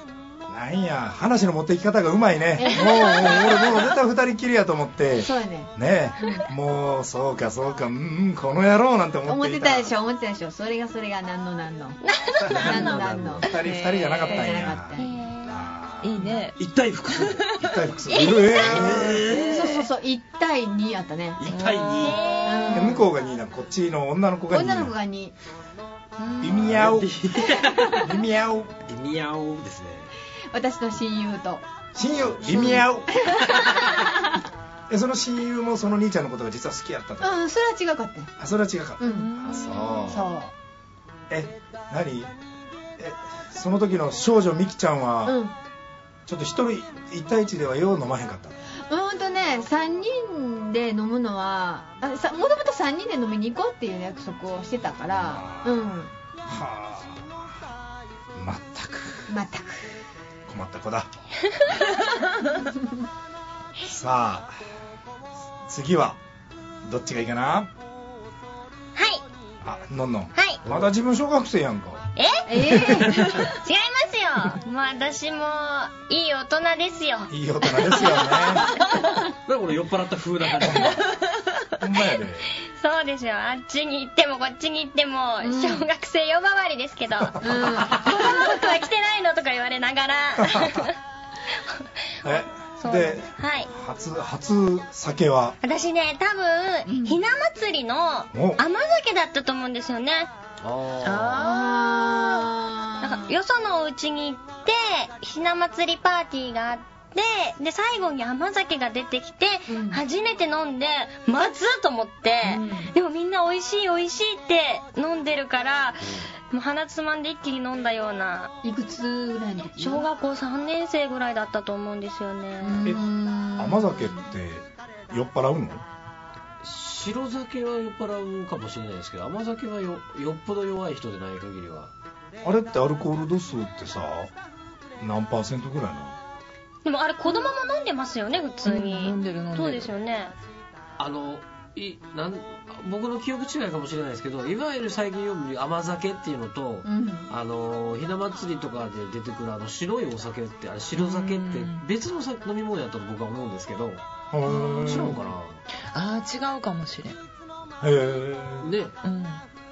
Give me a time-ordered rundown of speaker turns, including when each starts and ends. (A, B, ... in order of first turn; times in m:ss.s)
0:00.5-0:09.9 A
0:02.6-0:03.5 B
0:05.2-0:05.7 B
0:09.3-0:13.5 B
0:12.0-0:12.5 C
0:12.4-0:12.7 A
0:12.5-0:13.5 D
0:13.4-0:16.3 A
0:13.6-0:14.5 E
0:14.3-0:15.1 B
0:15.0-0:15.5 C
0:16.0-0:16.6 E
0:16.6-0:17.5 D
0:17.6-0:19.3 A
0:18.6-0:19.7 D
0:19.3-0:21.4 B
0:19.3-0:19.6 E
0:21.4-0:22.2 D
0:21.5-0:22.7 E
0:22.0-0:22.9 C
0:22.4-0:23.1 B
0:22.7-0:24.9 A
0:24.5-0:25.3 B
0:26.2-0:26.6 E
0:26.4-0:27.2 A
0:26.5-0:28.1 D
0:27.9-0:28.8 A
0:28.9-0:30.1 D
0:30.5-0:31.6 B
0:32.0-0:33.4 A
0:32.4-0:34.2 B
0:34.9-0:37.4 A
0:37.2-0:38.3 B
0:38.4-0:40.3 A
0:39.0-0:40.5 B
0:39.1-0:40.2 E
0:41.3-0:42.3 A
0:43.0-0:45.4 A
0:45.3-0:45.5 B
0:46.3-0:48.6 A
0:48.9-0:56.1 B
0:55.1-0:55.9 A
0:56.4-0:57.4 A
0:58.3-0:59.3 A
0:59.3-0:59.9 B
1:00.5-1:01.1 A
1:02.6-1:02.9 B
1:03.8-1:04.5 A
1:05.7-1:06.2 A
1:06.8-1:07.7 A
1:09.0-1:09.2 C
1:09.6-1:12.1 A
1:12.2-1:19.0 C
1:12.5-1:13.3 B
1:17.3-1:18.7 A
1:19.4-1:21.0 D
1:20.7-1:20.9 A
1:21.8-1:22.5 A
1:22.7-1:31.0 C
1:25.4-1:25.9 B
1:27.2-1:27.9 A
1:27.4-1:28.8 B
1:30.4-1:30.9 A
1:31.6-1:33.7 C
1:32.2-1:35.6 A
1:35.6-1:40.3 C
1:36.9-1:37.2 B
1:38.3-1:38.6 A
1:40.6-1:41.4 D
1:41.0-1:42.1 E
1:41.4-1:43.3 B
1:43.0-1:58.5 C
1:49.7-1:50.0 B
1:52.4-1:52.9 E
1:58.6-2:00.1 B
1:59.8-2:02.8 C
2:02.6-2:04.2 B
2:03.6-2:05.8 A
2:06.6-2:11.9 D
2:12.4-2:14.3 A
2:15.0-2:16.2 A
2:16.8-2:20.3 C
2:18.6-2:19.9 E
2:21.0-2:34.0 D
2:26.8-2:27.3 B
2:31.0-2:31.8 E
2:34.3-2:35.2 A
2:34.8-2:35.6 D
2:35.9-2:37.2 E
2:37.8-2:38.7 A
2:38.6-2:39.0 D
2:39.0-2:39.4 E